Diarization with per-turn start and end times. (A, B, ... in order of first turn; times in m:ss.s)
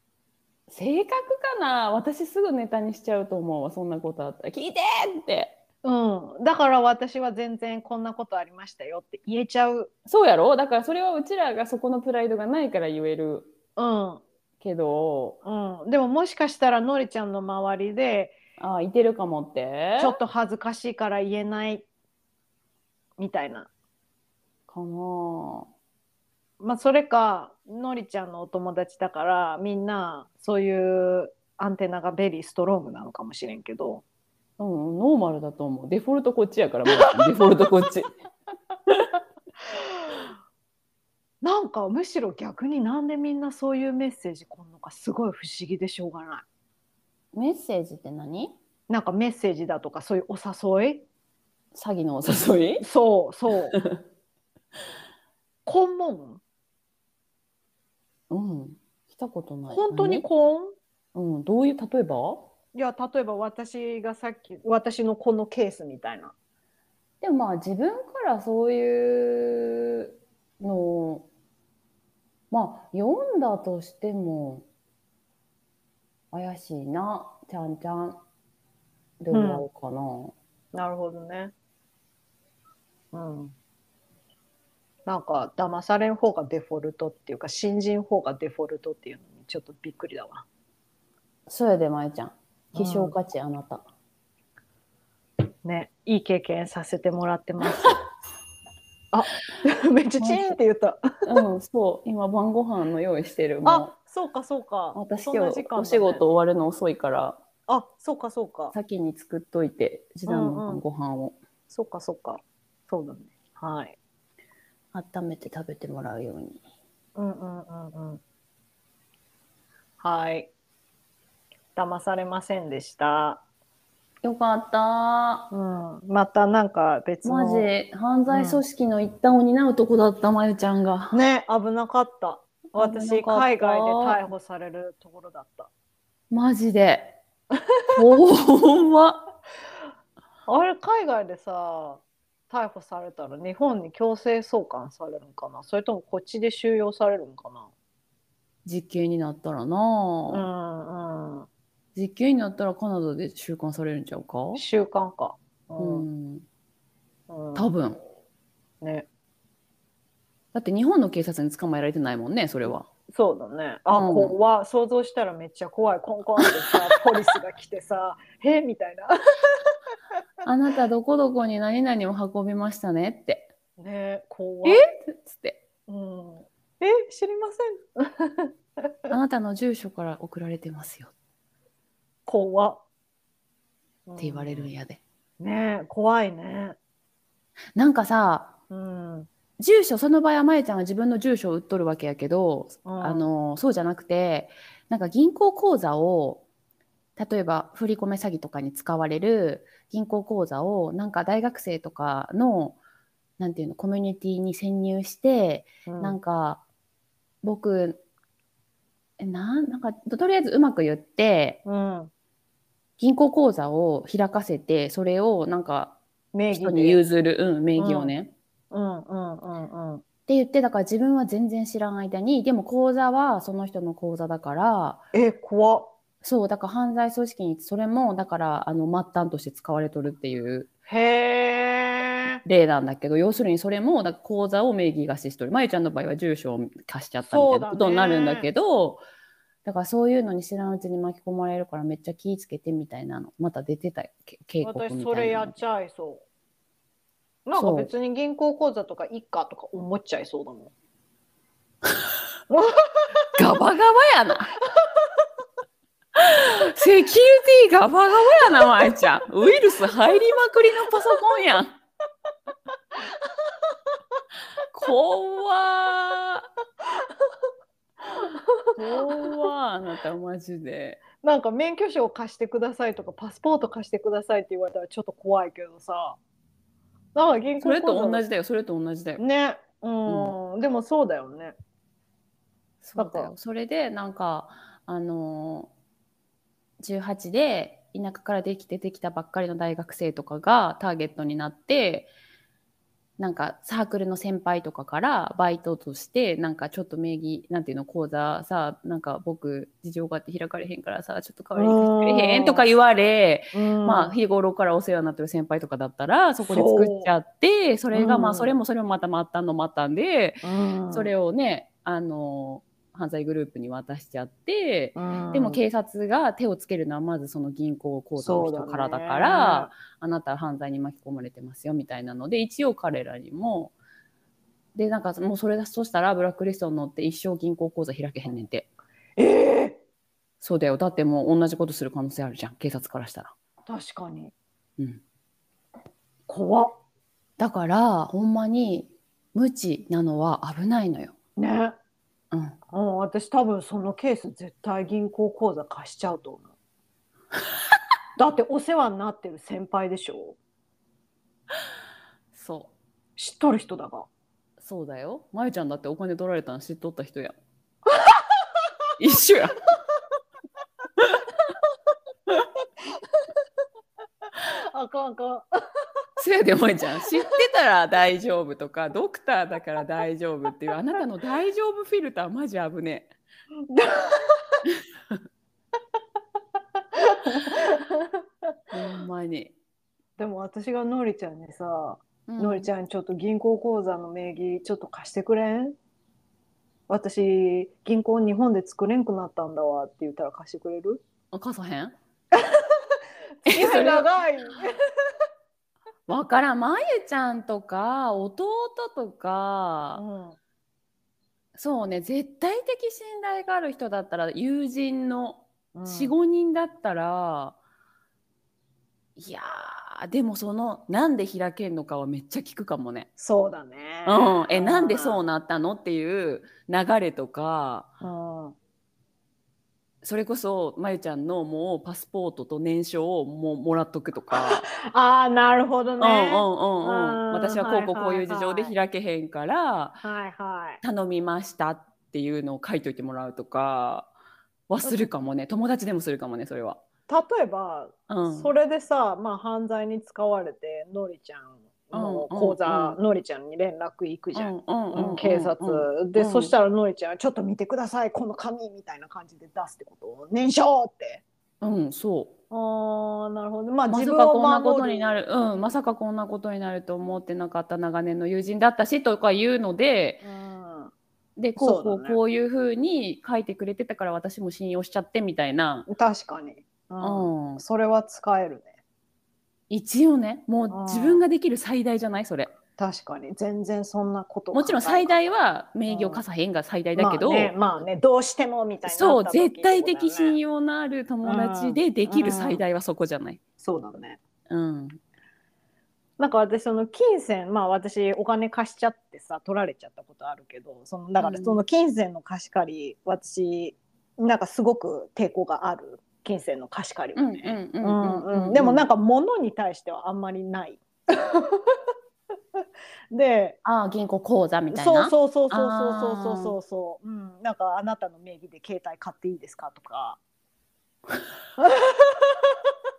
0:00.7-0:05.6 A
0:05.8-0:09.9 B
0:10.1-0:13.5 A
0:13.8-0:14.2 B
0:14.6-0:15.4 A
0:15.4-0:18.4 B
0:18.6-0:20.2 A
0:20.0-0:21.8 B
0:23.2-0:23.7 B
0:24.7-0:25.7 A
0:26.6-0:34.0 B
0:34.6-0:38.1 A
0:39.7-0:40.3 B
0:41.4-0:46.4 B
0:47.3-0:48.6 A
0:48.9-0:51.0 B
0:51.7-0:52.8 A
0:52.8-0:53.8 B
0:53.7-0:54.0 A
0:55.6-0:56.4 B
0:58.3-1:00.3 A
0:59.7-1:00.7 B
1:01.1-1:02.5 A
1:02.7-1:06.3 B
1:07.2-1:11.3 A
1:12.5-1:14.6 A
1:16.3-1:18.2 A
1:19.2-1:20.4 A
1:19.3-1:19.6 B
1:20.7-1:21.5 B
1:23.1-1:23.5 B
1:25.0-1:30.4 B
1:31.5-1:33.8 A
1:32.7-1:33.1 B
1:35.6-1:38.0 B
1:39.1-1:41.0 B
1:40.2-1:40.6 A
1:41.2-1:43.9 A
1:43.6-1:46.2 B
1:44.9-1:47.4 A
1:47.7-1:48.7 B
1:48.7-1:51.4 A
1:50.3-1:50.8 B
1:51.7-1:54.0 B
1:54.9-1:56.6 A
1:57.2-1:58.2 B
2:00.0-2:00.5 B
2:01.8-2:03.4 B
2:04.2-2:05.5 A
2:05.5-2:07.7 B
2:07.2-2:11.2 A
2:08.3-2:08.6 B
2:11.1-2:15.7 B
2:12.8-2:14.2 A
2:16.3-2:17.2 A
2:17.9-2:19.2 A
2:20.5-2:27.7 B
2:28.6-2:30.4 A
2:30.3-2:31.5 B
2:31.9-2:34.6 A
2:34.5-2:36.1 B
2:35.8-2:36.4 A
2:37.3-2:37.7 B
2:37.5-2:38.0 A
2:38.8-2:39.1 B
2:40.5-2:42.9 A
2:43.1-2:49.7 B
2:43.9-2:44.4 A
2:50.4-2:53.5 A
2:53.8-2:54.8 B
2:54.6-2:55.6 A
2:55.9-2:59.1 B
2:59.1-3:01.1 A
3:02.2-3:02.8 B
3:04.1-3:04.7 B
3:04.2-3:05.0 A
3:05.4-3:06.8 B
3:07.8-3:08.5 A
3:08.7-3:09.3 B
3:09.6-3:16.4 A
3:12.8-3:13.2 B
3:17.2-3:22.8 A
3:23.4-3:26.6 A
3:25.8-3:26.2 B
3:27.4-3:28.0 A
3:29.2-3:31.6 A
3:31.6-3:32.1 B
3:33.0-3:36.0 A
3:36.3-3:37.0 B
3:36.5-3:38.3 A
3:37.8-3:38.1 B
3:38.7-3:40.0 B
3:40.3-3:45.0 A
3:45.1-3:45.9 B
3:46.2-3:50.7 A
3:50.9-3:52.4 B
3:52.4-3:59.0 A
3:57.3-3:58.5 B
3:59.6-4:05.6 A
4:04.6-4:06.2 B
4:07.4-4:10.7 B
4:07.5-4:07.9 A
4:12.5-4:13.2 B
4:13.4-4:14.5 A
4:16.2-4:21.8 A
4:22.9-4:23.8 B
4:24.7-4:26.5 A
4:26.8-4:27.3 B
4:28.0-4:29.4 B
4:28.8-4:31.0 A
4:31.2-4:36.2 B
4:37.1-4:38.2 B
4:37.6-4:39.2 A
4:39.2-4:41.5 B
4:40.1-4:40.3 A
4:42.8-4:45.7 A
4:43.0-4:43.3 B
4:46.8-4:52.1 A
4:53.2-5:23.7 A
5:01.6-5:02.6 B
5:03.5-5:04.1 B
5:06.4-5:07.1 B
5:07.9-5:08.5 B
5:10.4-5:11.1 B
5:15.0-5:15.6 B
5:18.2-5:19.7 B
5:24.7-5:28.7 A
5:29.2-5:29.8 B
5:30.4-5:33.3 A
5:33.6-5:34.3 B
5:36.3-5:36.8 B
5:37.4-5:41.2 A
5:41.4-5:41.8 B
5:42.3-5:42.6 A
5:42.7-5:46.5 B
5:48.2-5:50.4 B
5:52.3-5:52.7 A
5:53.2-5:54.1 B
5:54.6-5:57.4 A
5:57.9-5:58.6 B
5:59.0-5:59.6 A
6:02.3-6:03.3 B
6:04.3-6:05.5 B
6:06.2-6:13.1 A
6:13.7-6:14.6 B
6:16.9-6:18.2 B
6:18.7-6:19.5 A
6:20.2-6:25.8 B
6:22.3-6:22.7 A
6:26.9-6:31.0 B
6:31.3-6:32.0 A
6:32.3-6:34.7 B
6:33.4-6:34.1 A
6:36.1-6:40.0 A
6:39.9-6:40.4 B
6:41.5-6:47.6 A
6:45.7-6:46.1 B
6:49.2-6:53.1 A
6:53.2-6:55.2 B
6:54.0-6:57.9 A
6:58.0-6:58.6 B
7:00.0-7:04.7 A
7:04.3-7:08.7 B
7:06.0-7:10.0 A
7:10.0-7:10.8 B
7:10.8-7:14.1 A
7:14.7-7:16.8 A
7:17.1-7:31.2 B
7:18.1-7:18.5 A
7:21.9-7:23.0 A
7:24.3-7:26.5 A
7:31.6-7:32.3 A
7:32.5-7:35.2 B
7:33.9-7:40.2 A
7:40.2-7:40.9 B
7:41.4-7:45.9 A
7:41.6-7:42.2 B
7:45.9-7:48.8 B
7:47.0-7:47.6 A
7:49.7-7:52.5 A
7:50.7-7:51.2 B
7:52.8-7:55.2 B
7:54.5-7:57.5 A
7:55.9-7:56.2 B
7:57.0-8:00.4 B
7:58.8-8:03.4 A
8:01.2-8:02.6 B
8:03.6-8:04.2 B
8:04.5-8:05.0 A
8:06.2-8:21.8 B
8:11.2-8:11.6 A
8:17.2-8:18.8 A
8:22.6-8:23.6 B
8:23.6-8:26.6 A
8:24.7-8:30.2 B
8:31.6-8:32.7 B